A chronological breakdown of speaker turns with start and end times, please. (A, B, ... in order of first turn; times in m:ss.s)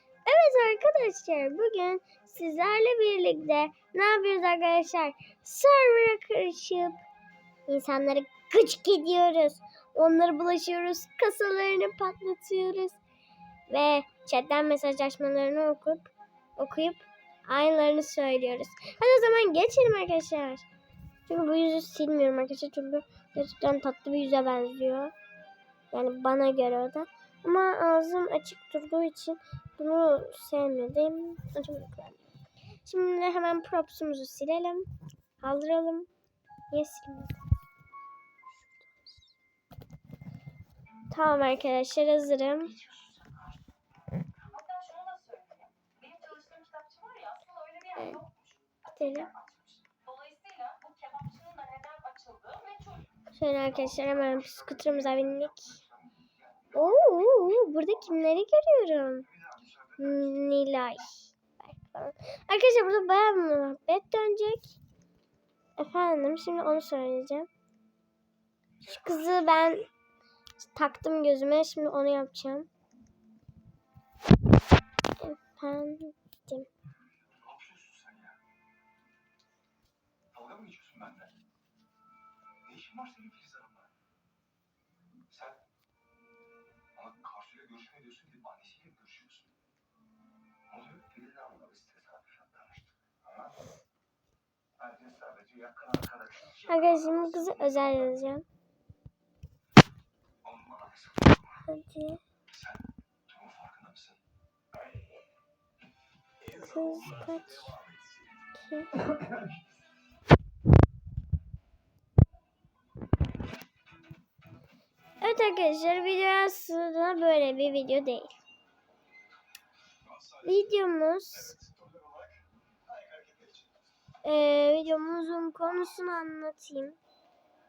0:00.2-0:07.0 A
0:07.7-0:13.0 A
0:13.7-0:20.7 A
0:21.3-0:25.1 A
0:25.9-0:34.9 A
0:35.4-0:36.1 A
0:36.7-0:37.4 A
0:41.1-0:42.8 A
0:44.7-0:45.4 B
0:46.6-0:47.2 B
0:47.8-0:48.3 A
0:48.9-0:49.3 A
0:53.3-0:55.8 A
0:56.7-0:59.3 A
1:00.0-1:04.8 A
1:05.8-1:07.5 A
1:08.8-1:09.9 A
1:10.6-1:12.7 A
1:15.2-1:16.7 A
1:17.5-1:18.3 B
1:20.4-1:21.1 B
1:22.7-1:23.7 B
1:27.0-1:29.3 B
1:30.7-1:32.7 B
1:35.0-1:36.1 B
1:36.5-1:38.4 A
1:40.5-1:40.7 B
1:41.6-1:42.2 A
1:43.3-1:44.1 B
1:46.4-1:47.8 A
1:48.5-1:49.1 A
1:55.2-1:58.3 A
2:00.4-2:01.7 A
2:04.2-2:07.0 A